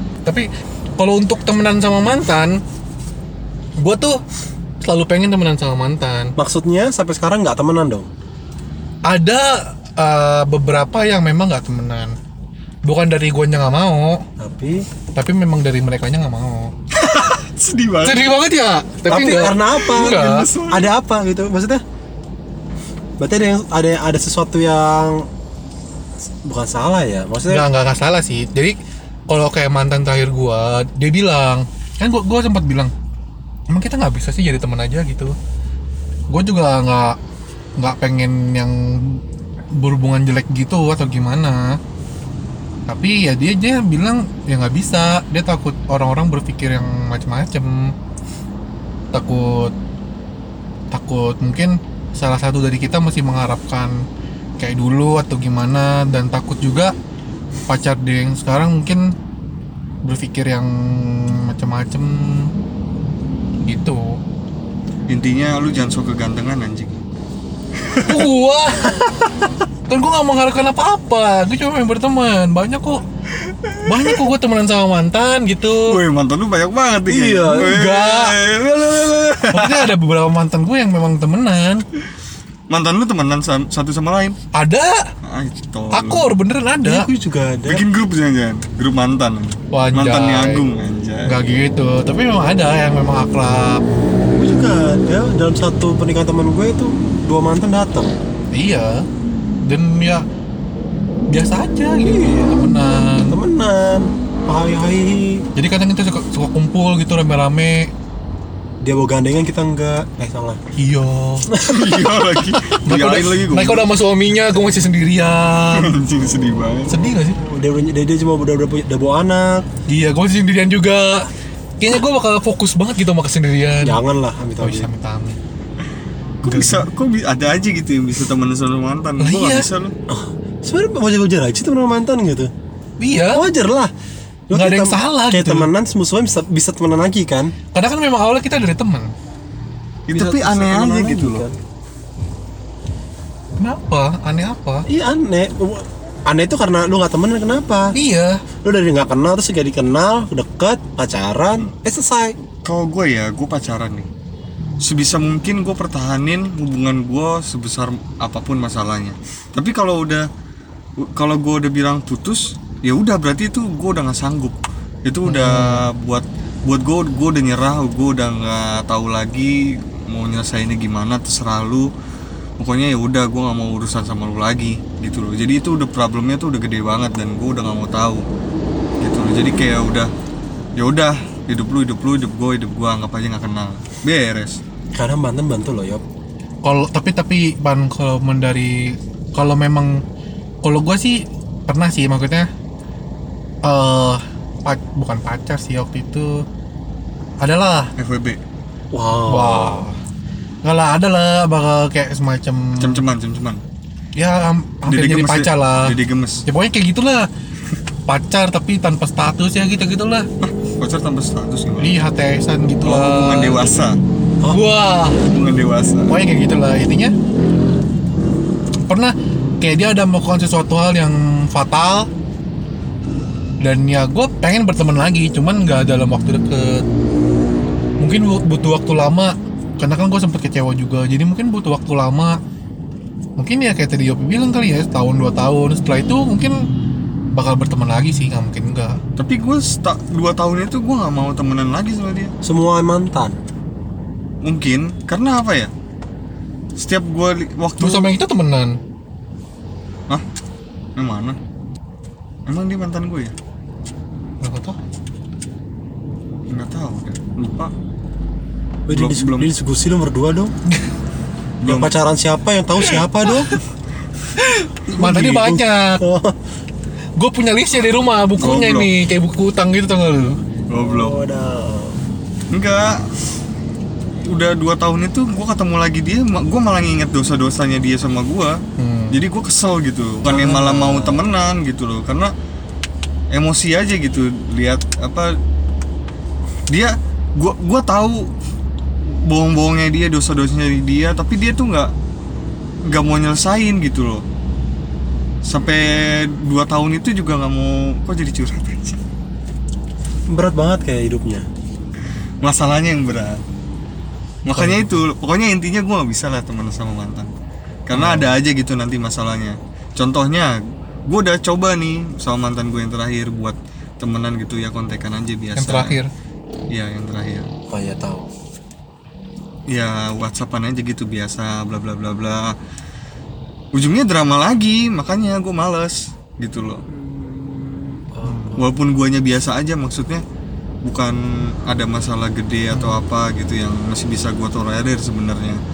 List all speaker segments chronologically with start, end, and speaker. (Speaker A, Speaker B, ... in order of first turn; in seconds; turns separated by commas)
Speaker A: 0.3-2.6, Speaker A: 3.8-4.2, Speaker A: 4.8-6.3, Speaker B: 6.4-8.1, Speaker A: 9.1-12.2, Speaker A: 12.8-14.2, Speaker B: 14.4-14.9, Speaker A: 15.1-16.7, Speaker C: 16.9-18.3, Speaker A: 18.0-20.5, Speaker B: 19.1-21.8, Speaker C: 19.8-20.9, Speaker B: 23.2-25.3, Speaker B: 26.4-27.7, Speaker A: 27.5-28.8, Speaker A: 29.3-32.9, Speaker A: 33.7-35.4, Speaker A: 36.3-37.2, Speaker A: 37.8-39.2, Speaker A: 39.8-41.8, Speaker A: 42.9-47.9, Speaker A: 49.1-49.7, Speaker A: 50.9-54.0, Speaker A: 54.6-56.9, Speaker A: 57.7-59.1, Speaker A: 60.0-62.5, Speaker A: 63.6-64.2, Speaker C: 65.1-67.0, Speaker C: 67.8-68.2, Speaker A: 68.0-69.0, Speaker A: 69.9-73.0, Speaker C: 73.5-74.2, Speaker A: 73.8-76.0, Speaker C: 75.9-79.9, Speaker B: 77.1-77.8, Speaker A: 77.6-78.4, Speaker A: 79.5-81.8, Speaker C: 82.7-84.4, Speaker A: 84.5-85.1, Speaker C: 85.2-86.3, Speaker A: 85.9-87.1, Speaker B: 86.8-87.9, Speaker C: 87.7-91.4, Speaker A: 89.7-90.7, Speaker A: 91.3-93.8, Speaker B: 94.3-98.1, Speaker A: 98.5-99.0, Speaker A: 99.7-100.2, Speaker A: 101.3-103.4, Speaker B: 102.0-102.6, Speaker B: 103.3-105.5, Speaker A: 105.6-107.9, Speaker B: 108.8-110.6, Speaker A: 110.8-111.5, Speaker B: 111.5-111.9, Speaker C: 111.6-113.9, Speaker A: 112.7-115.9, Speaker C: 115.7-117.0, Speaker A: 116.9-117.4, Speaker B: 117.3-119.7, Speaker A: 119.9-121.3, Speaker A: 121.8-124.0, Speaker B: 123.8-124.9, Speaker A: 124.6-125.4, Speaker C: 126.4-129.9, Speaker A: 126.5-126.8, Speaker A: 129.2-129.7, Speaker B: 130.1-132.5, Speaker A: 133.0-133.5, Speaker B: 133.3-133.9, Speaker B: 134.5-137.5, Speaker A: 134.5-135.7, Speaker A: 137.7-139.1, Speaker C: 140.1-141.4, Speaker B: 140.1-141.6, Speaker A: 143.6-144.9, Speaker B: 144.9-147.9, Speaker A: 147.9-148.4, Speaker B: 148.6-152.4, Speaker C: 152.6-154.1, Speaker C: 154.8-160.3, Speaker C: 161.0-171.9, Speaker A: 165.2-165.9, Speaker C: 172.6-178.2, Speaker C: 179.0-180.1, Speaker C: 180.8-184.6, Speaker B: 184.9-186.0, Speaker A: 186.7-190.0, Speaker A: 190.6-192.5, Speaker A: 193.7-196.4, Speaker A: 197.4-197.9, Speaker C: 198.0-198.4, Speaker B: 198.9-199.9, Speaker A: 199.3-200.0, Speaker A: 200.6-203.0, Speaker C: 202.8-203.6, Speaker A: 204.2-205.9, Speaker C: 204.9-206.4, Speaker A: 206.5-207.3, Speaker A: 208.1-210.3, Speaker C: 210.4-212.0, Speaker A: 211.8-213.7, Speaker C: 212.8-214.0, Speaker A: 214.5-215.2, Speaker C: 215.2-216.2, Speaker A: 216.1-217.1, Speaker A: 218.9-222.1, Speaker A: 223.6-226.8, Speaker A: 228.0-232.4, Speaker A: 233.4-236.7, Speaker A: 237.3-239.0, Speaker C: 239.2-242.3, Speaker B: 242.4-243.4, Speaker C: 244.4-245.7, Speaker C: 246.8-248.2, Speaker A: 247.8-248.8, Speaker C: 251.0-251.4, Speaker C: 252.5-253.3, Speaker A: 254.4-254.8, Speaker C: 256.5-257.7, Speaker B: 258.9-260.6, Speaker C: 258.9-259.5, Speaker C: 261.6-261.9, Speaker B: 261.6-263.5, Speaker A: 263.3-263.6, Speaker A: 264.4-266.0, Speaker B: 264.9-266.4, Speaker A: 267.2-270.4, Speaker C: 268.4-268.9, Speaker C: 270.7-271.2, Speaker B: 270.8-272.0, Speaker C: 272.5-273.1, Speaker C: 274.2-278.6, Speaker A: 278.8-279.2, Speaker C: 279.1-282.3, Speaker A: 280.3-280.6, Speaker B: 280.4-281.2, Speaker C: 283.3-285.4, Speaker C: 286.7-288.3, Speaker C: 289.1-291.9, Speaker C: 292.9-294.2, Speaker C: 295.4-299.0, Speaker B: 300.3-301.4, Speaker C: 302.4-303.4, Speaker C: 304.4-307.3, Speaker A: 304.5-305.0, Speaker C: 307.9-316.0, Speaker A: 307.9-308.3, Speaker A: 315.6-316.1, Speaker C: 316.7-317.5, Speaker B: 317.7-318.3, Speaker C: 319.7-322.6, Speaker C: 323.7-326.8, Speaker B: 326.9-328.7, Speaker A: 328.2-328.6, Speaker C: 328.6-330.2, Speaker C: 330.8-335.6, Speaker A: 332.7-333.0